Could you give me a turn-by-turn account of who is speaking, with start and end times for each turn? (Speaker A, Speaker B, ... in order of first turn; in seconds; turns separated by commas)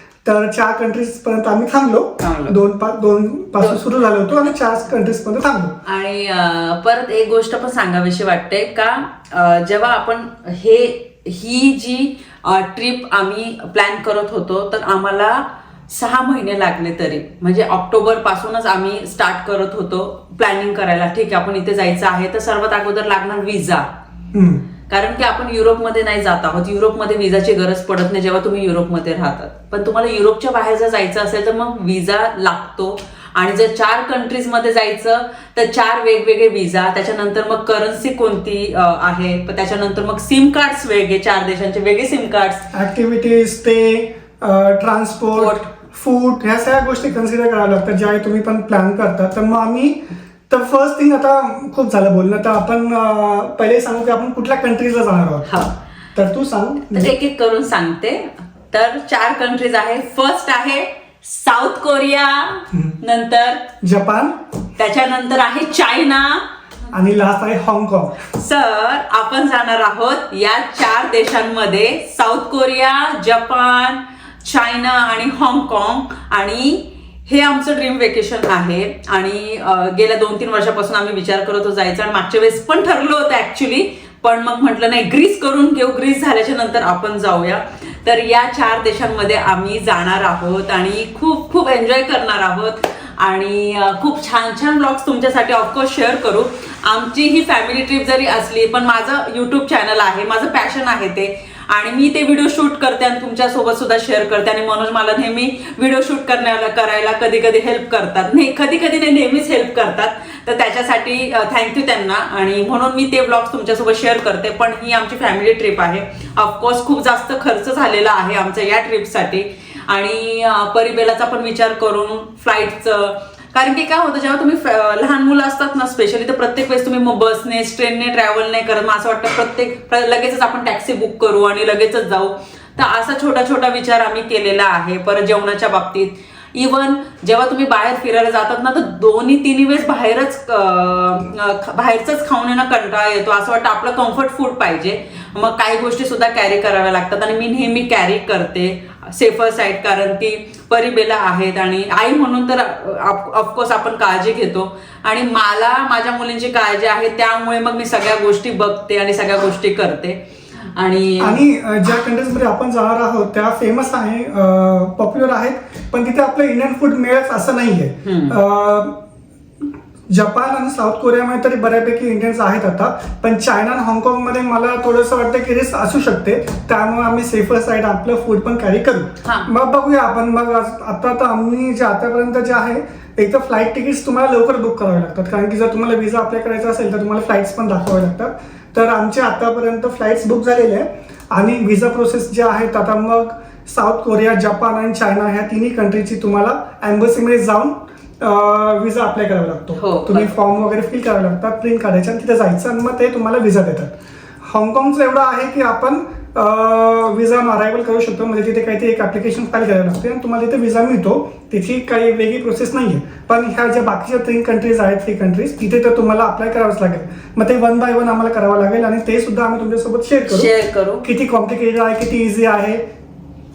Speaker A: 0.2-5.8, Speaker B: 2.2-2.6, Speaker B: 3.6-3.9, Speaker B: 5.8-23.9, Speaker A: 24.3-24.6, Speaker B: 24.9-42.7, Speaker A: 42.7-55.5, Speaker B: 45.4-45.7, Speaker B: 55.5-55.7, Speaker A: 56.1-57.1, Speaker B: 56.9-63.6, Speaker A: 62.7-63.0, Speaker A: 63.8-64.3, Speaker B: 64.8-66.5, Speaker A: 66.9-68.2, Speaker B: 68.2-160.2, Speaker B: 160.8-161.4, Speaker A: 161.2-169.0, Speaker B: 168.0-168.4, Speaker A: 170.1-203.9, Speaker B: 179.2-179.5, Speaker B: 199.8-200.3, Speaker A: 204.5-220.5, Speaker B: 220.3-221.1, Speaker A: 221.0-222.8